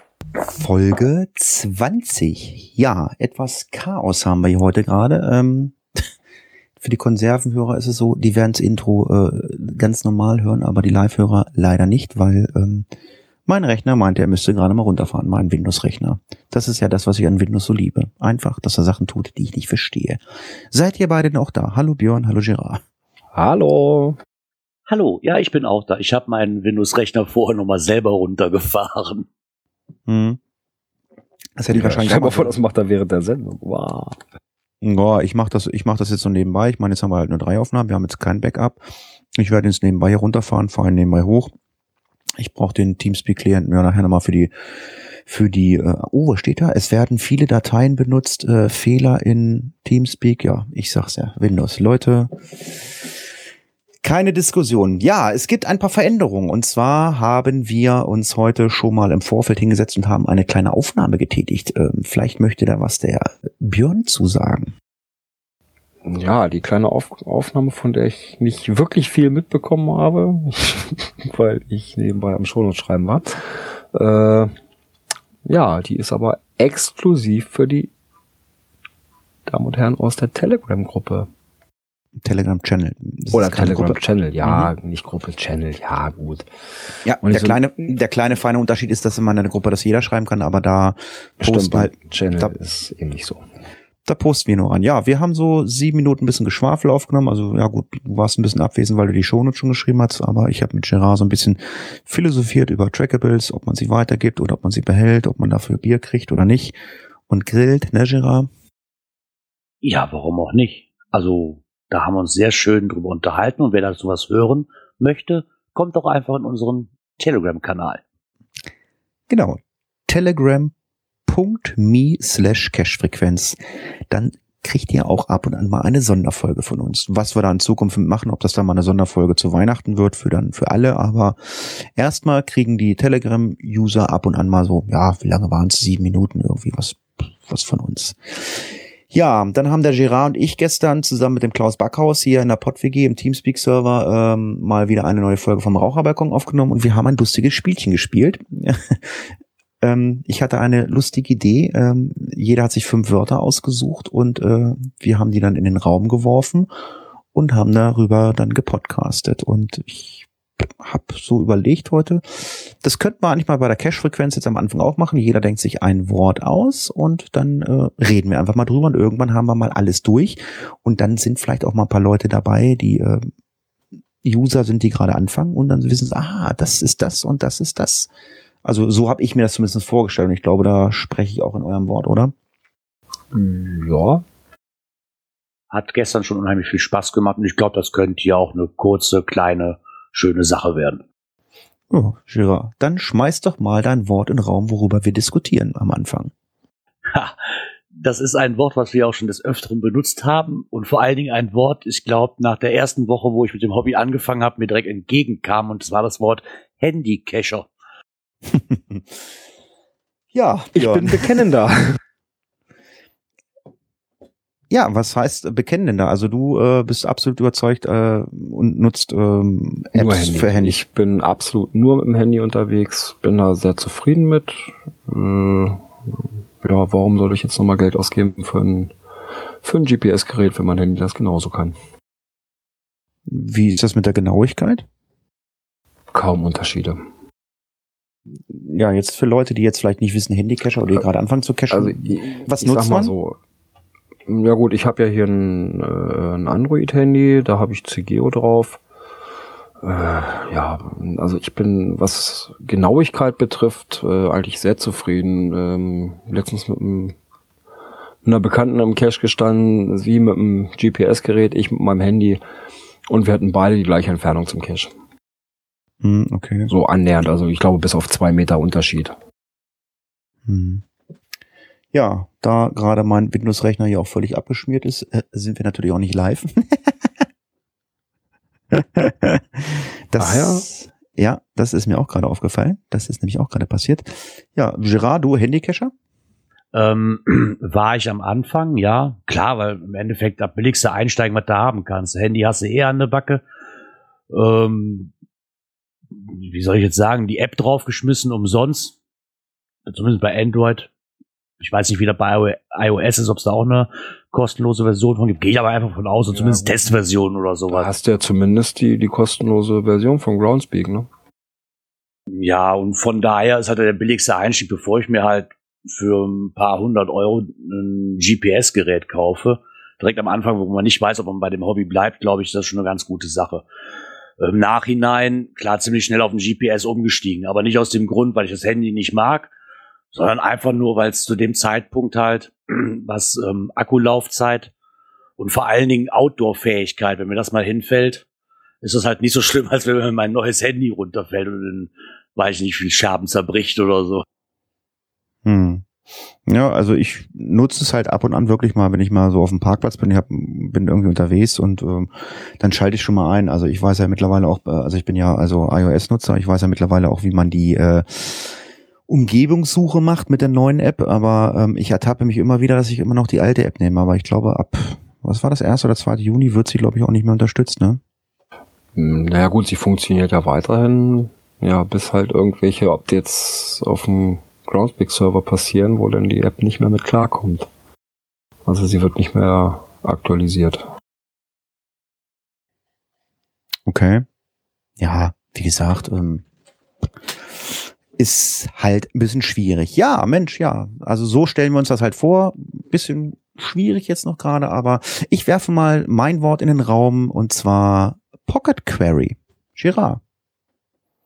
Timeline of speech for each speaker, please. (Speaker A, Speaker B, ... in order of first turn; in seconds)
Speaker A: 0.6-5.8, 6.8-12.9, 13.5-22.8, 30.1-30.4, 31.6-32.5, 34.8-41.5, 42.4-44.5, 45.3-52.8, 54.0-64.7, 82.2-84.7, 87.0-92.5, 94.0-106.8, 107.3-108.5, 119.3-120.7, 121.3-123.6, 124.1-149.3, 149.8-156.7, 157.3-173.3, 174.2-178.1, 178.6-182.3, 191.9-196.3, 208.5-209.1, 210.3-211.3, 214.7-220.8, 233.3-234.8, 238.5-243.1, 266.0-266.7, 270.5-270.8, 271.9-276.9, 278.7-285.9, 345.4-345.9, 346.5-368.0, 383.9-384.3, 385.0-386.4, 387.6-400.2
Speaker B: 23.4-24.2, 31.7-34.2, 66.0-74.5, 75.5-77.9, 79.5-81.3, 83.3-86.5, 87.2-87.6, 91.4-93.5, 183.3-184.2, 210.7-212.0, 219.9-225.8, 226.6-228.9, 229.6-231.8, 236.1-237.0, 241.7-243.4, 244.3-248.8, 249.8-257.2, 258.2-262.4, 263.1-264.9, 266.7-269.1, 280.2-280.7, 306.3-306.9, 307.7-311.1, 368.9-377.7, 378.7-380.9
Speaker C: 24.9-29.3, 109.8-118.0, 185.7-191.0, 197.1-197.4, 197.9-207.7, 286.7-293.4, 294.3-295.1, 296.1-299.0, 299.9-300.9, 301.6-307.9, 312.3-323.6, 324.4-329.5, 330.1-334.7, 335.4-338.2, 338.8-344.2